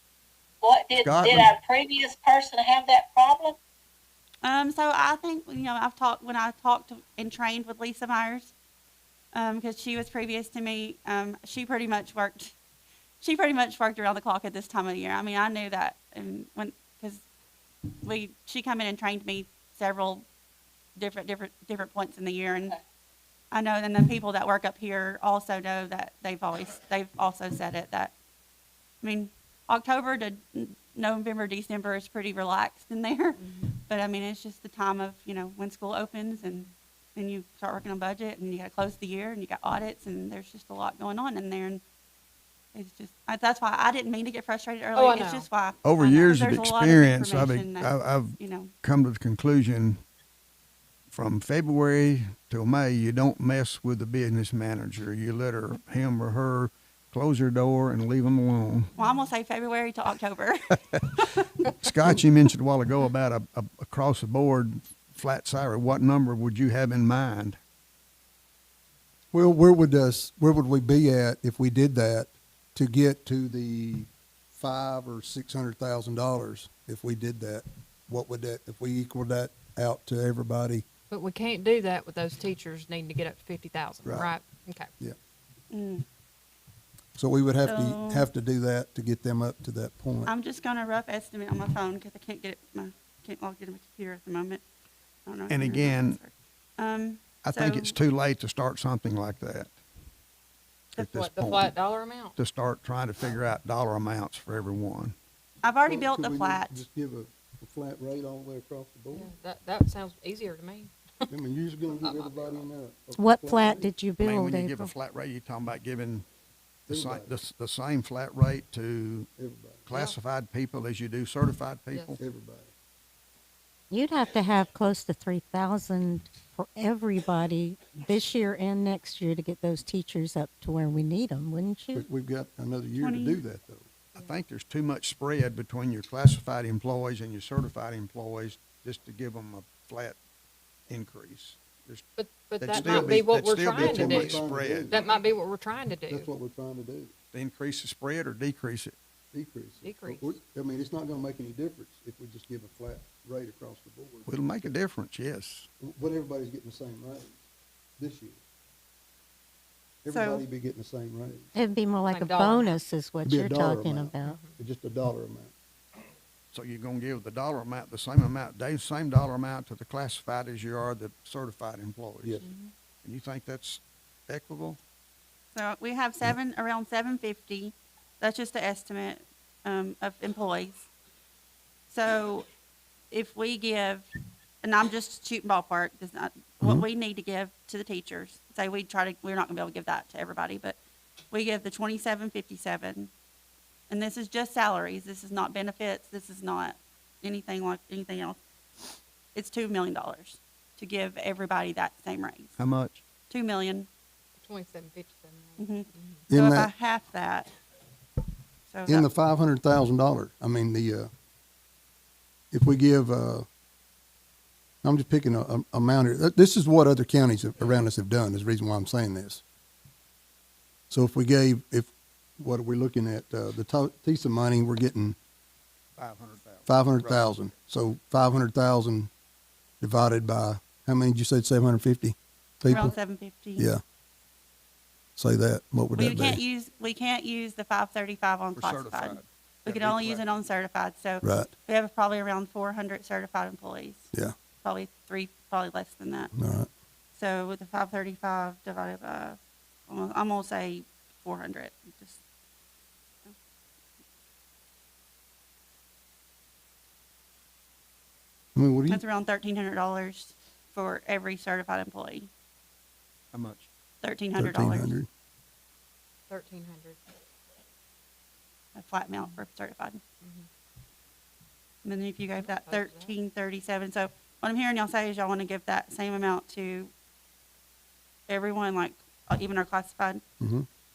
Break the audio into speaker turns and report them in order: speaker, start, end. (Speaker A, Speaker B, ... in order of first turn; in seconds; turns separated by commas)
Speaker A: 0.6-3.6, Speaker B: 1.0-1.5, Speaker C: 4.4-8.5, Speaker C: 9.3-12.6, Speaker C: 13.2-17.2, Speaker C: 18.0-20.3, Speaker C: 21.0-22.8, Speaker C: 23.5-28.1, Speaker C: 29.0-41.8, Speaker D: 33.4-33.7, Speaker C: 42.7-48.7, Speaker D: 45.0-45.5, Speaker B: 45.8-50.0, Speaker B: 51.1-58.9, Speaker D: 59.0-59.3, Speaker C: 59.0-61.5, Speaker B: 61.8-67.6, Speaker E: 69.3-80.8, Speaker D: 81.1-84.9, Speaker E: 84.0-84.3, Speaker C: 85.7-86.0, Speaker E: 87.2-90.3, Speaker C: 87.7-88.3, Speaker C: 90.3-94.6, Speaker C: 95.3-98.0, Speaker B: 95.5-96.2, Speaker B: 97.4-99.7, Speaker B: 101.0-101.8, Speaker D: 101.1-102.4, Speaker B: 102.4-105.2, Speaker C: 105.6-106.8, Speaker E: 105.8-109.3, Speaker D: 109.1-111.3, Speaker E: 111.3-113.9, Speaker D: 111.9-112.6, Speaker F: 113.2-114.9, Speaker B: 114.2-116.3, Speaker B: 116.9-119.3, Speaker E: 116.9-117.4, Speaker E: 119.4-120.0, Speaker B: 119.9-122.2, Speaker D: 121.9-122.2, Speaker E: 122.2-122.7, Speaker F: 123.9-132.1, Speaker E: 131.9-133.9, Speaker C: 133.0-133.4, Speaker B: 134.2-140.2, Speaker B: 140.9-142.1, Speaker D: 142.2-146.3, Speaker B: 142.6-145.1, Speaker E: 142.7-145.1, Speaker E: 146.1-147.1, Speaker B: 147.3-149.0, Speaker E: 149.3-154.7, Speaker D: 149.8-150.4, Speaker B: 154.3-155.7, Speaker E: 155.8-157.4, Speaker E: 158.0-158.4, Speaker E: 160.0-161.5, Speaker C: 160.1-160.4, Speaker F: 161.6-164.4, Speaker D: 162.1-162.8, Speaker E: 163.2-165.5, Speaker D: 164.2-164.6, Speaker B: 166.5-172.4, Speaker D: 172.4-172.7, Speaker B: 173.0-174.8, Speaker C: 175.5-180.9, Speaker C: 181.9-182.5, Speaker C: 183.1-184.1, Speaker C: 184.6-190.8, Speaker C: 191.3-193.1, Speaker C: 193.9-198.4, Speaker C: 198.9-202.6, Speaker B: 202.6-203.0, Speaker C: 203.3-203.9, Speaker D: 204.4-206.3, Speaker C: 205.6-207.5, Speaker E: 206.3-206.7, Speaker C: 208.7-209.1, Speaker E: 208.9-211.1, Speaker E: 212.5-213.5, Speaker E: 214.8-219.4, Speaker E: 220.9-225.2, Speaker B: 226.0-227.2, Speaker E: 226.7-229.1, Speaker E: 229.8-232.9, Speaker C: 232.7-233.7, Speaker E: 235.2-236.4, Speaker C: 236.0-244.1, Speaker B: 238.6-240.3, Speaker E: 241.2-241.5, Speaker C: 244.6-246.3, Speaker E: 246.3-246.7, Speaker C: 247.2-252.2, Speaker E: 258.6-259.0, Speaker C: 258.9-262.3, Speaker B: 263.3-263.7, Speaker C: 264.0-265.0, Speaker E: 264.4-265.1, Speaker D: 266.3-267.0, Speaker C: 268.8-270.0, Speaker D: 270.2-270.5, Speaker C: 271.8-276.9, Speaker D: 272.4-273.1, Speaker C: 278.3-280.2, Speaker E: 280.4-280.7